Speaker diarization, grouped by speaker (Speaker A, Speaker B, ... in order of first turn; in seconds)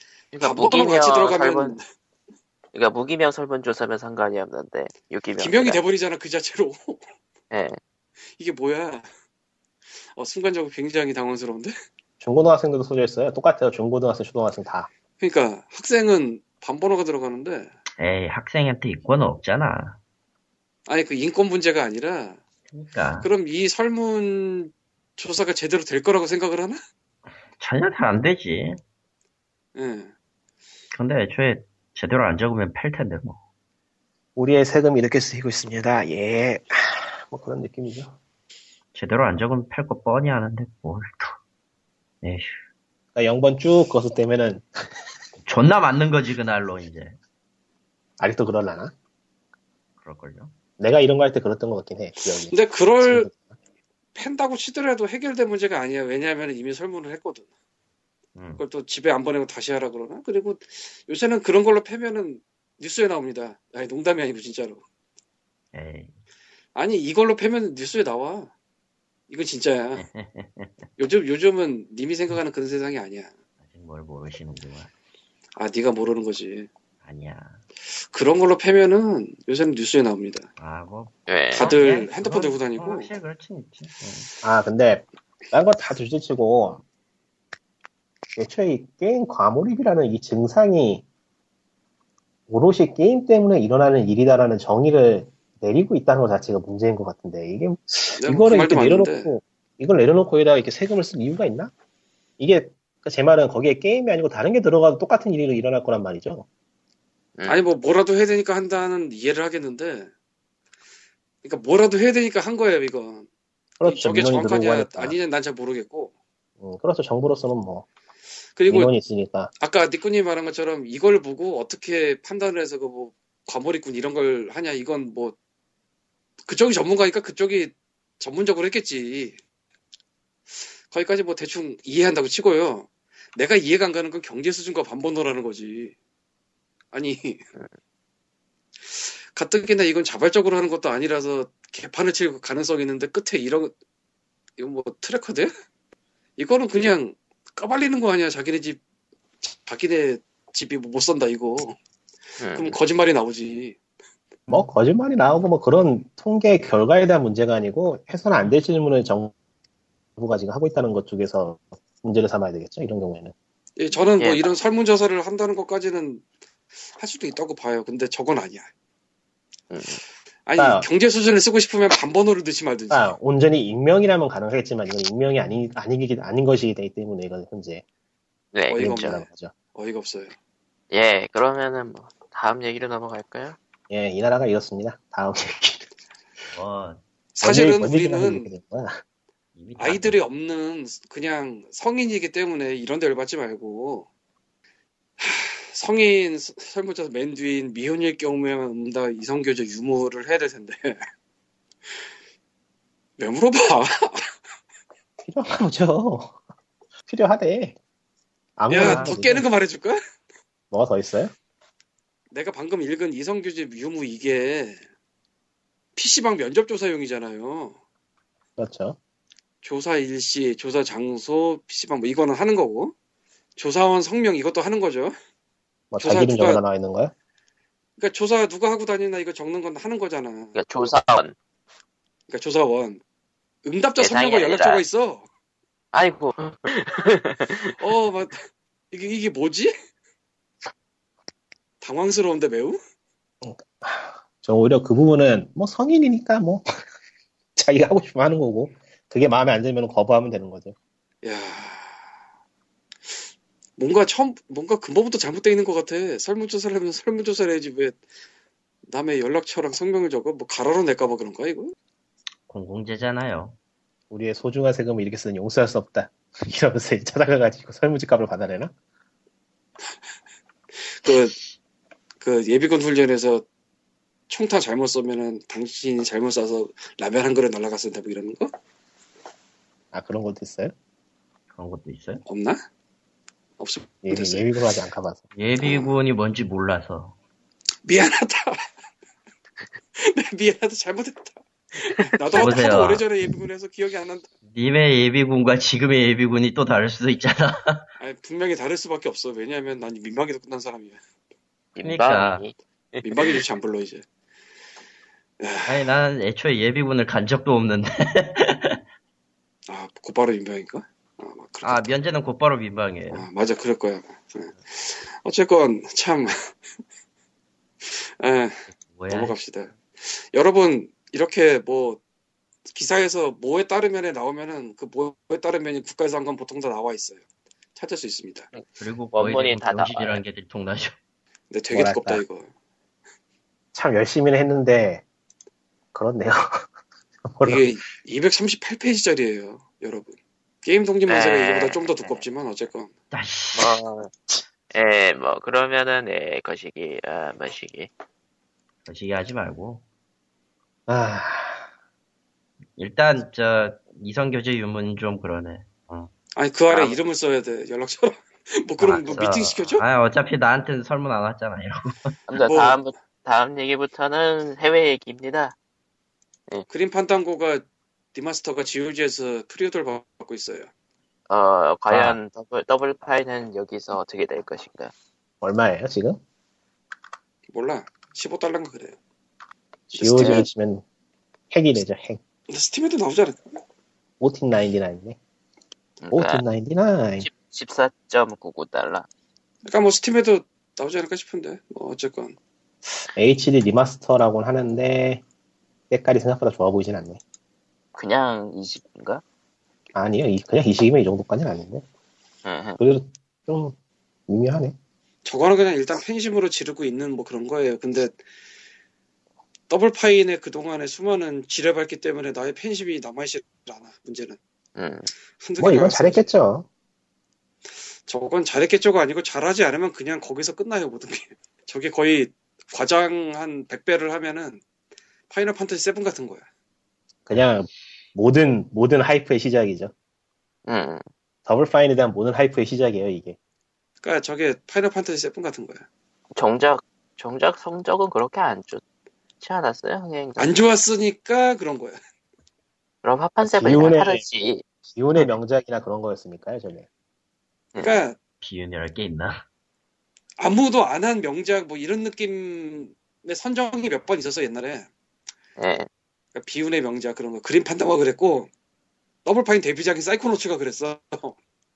Speaker A: 0.3-1.8, 2.7-5.8, 7.5-7.8, 81.3-81.7, 107.4-107.6, 152.4-152.8, 169.7-170.0, 178.5-179.3, 180.9-183.6, 230.6-231.3, 234.0-234.8, 235.9-237.7, 292.2-292.6, 301.8-303.4, 328.5-330.2, 341.1-342.2, 343.6-344.1, 344.7-347.9, 356.7-357.0, 362.3-365.6, 371.3-374.9, 380.0-380.5, 386.0-386.4, 387.2-389.1, 397.9-399.2, 402.4-402.8, 414.8-415.1, 430.7-431.0, 436.4-438.8, 439.4-440.6, 443.0-444.6, 447.8-448.0, 455.6-455.9
Speaker B: 0.4-1.8, 5.4-7.0, 8.4-9.1, 10.2-11.7, 15.2-17.7, 20.9-22.4, 23.2-26.8, 29.8-30.1, 52.5-53.3, 54.1-57.5, 58.6-64.8, 66.8-68.5, 69.3-70.0, 71.0-73.3, 75.6-76.7, 78.1-80.5, 81.5-83.1, 98.2-99.3, 107.5-110.1, 111.4-113.3, 113.8-116.1, 118.6-118.9, 119.6-125.4, 126.5-129.4, 130.9-135.9, 136.9-137.4, 138.9-143.7, 144.6-145.5, 146.4-148.8, 149.4-151.8, 152.5-153.8, 163.8-166.2, 167.0-168.7, 170.5-173.1, 178.7-179.2, 179.8-180.3, 187.4-188.5, 189.8-194.1, 195.2-201.0, 203.2-204.2, 208.7-210.0, 212.3-214.8, 216.0-217.8, 219.6-222.9, 223.6-225.1, 226.0-226.6, 228.0-230.6, 232.3-233.0, 233.6-235.3, 237.8-238.4, 238.9-239.7, 241.8-242.8, 251.2-251.9, 253.8-258.0, 258.9-261.7, 271.0-271.4, 272.2-273.4, 274.3-278.5, 282.3-282.6, 283.6-284.5, 287.9-288.6, 290.0-294.3, 298.0-301.0, 303.0-304.1, 305.4-305.9, 309.7-311.9, 313.1-316.3, 317.8-318.6, 319.1-322.0, 322.7-327.2, 327.8-328.5, 331.5-332.5, 337.4-342.9, 356.4-359.8, 362.4-362.8, 366.7-370.7, 377.5-379.0, 379.9-380.4, 382.5-383.4, 389.6-392.4, 405.2-408.2, 409.7-414.4, 415.4-416.2, 418.1-424.6, 425.3-426.4, 434.0-435.8, 440.4-442.0, 447.8-448.2, 450.4-454.9, 456.3-458.5, 459.2-461.4
Speaker C: 12.2-14.9, 34.4-38.2, 43.2-44.7, 48.2-48.9, 50.8-53.4, 84.4-86.8, 88.4-91.0, 92.5-101.7, 102.4-106.5, 113.8-115.2, 116.6-117.9, 118.7-119.5, 154.5-159.3, 160.2-163.3, 170.6-170.9, 172.9-177.8, 178.8-179.5, 183.9-185.9, 187.4-189.0, 205.2-206.4, 207.1-207.8, 208.6-209.4, 210.7-211.3, 218.6-219.0, 225.9-227.1, 243.4-246.7, 247.6-250.8, 264.1-268.7, 279.9-280.7, 284.0-285.2, 331.7-332.2, 333.7-335.0, 335.9-336.7, 337.3-337.7, 350.9-351.6, 375.4-376.2, 379.9-380.8, 381.5-382.2, 384.2-385.2, 386.1-387.3, 393.1-395.2, 395.9-397.2, 399.9-401.8, 402.8-403.8, 404.3-404.8, 415.6-416.7, 427.3-429.9, 431.5-433.4, 443.4-444.2, 444.9-446.9
Speaker D: 18.0-20.0, 22.7-23.3, 27.6-28.8, 30.9-33.4, 38.9-41.4, 42.2-42.5, 45.4-47.2, 50.0-50.5, 58.4-58.6, 65.7-66.2, 70.0-70.9, 73.7-74.9, 77.0-77.6, 80.6-84.3, 186.5-187.0, 189.6-190.2, 262.5-263.6, 281.6-282.2, 285.4-287.2, 292.4-293.1, 294.5-297.9, 301.8-302.4, 305.7-308.8, 311.6-313.3, 318.7-319.4, 328.8-330.9, 343.1-343.8, 348.9-349.8, 352.8-356.1, 358.8-362.2, 371.9-372.2, 448.4-449.4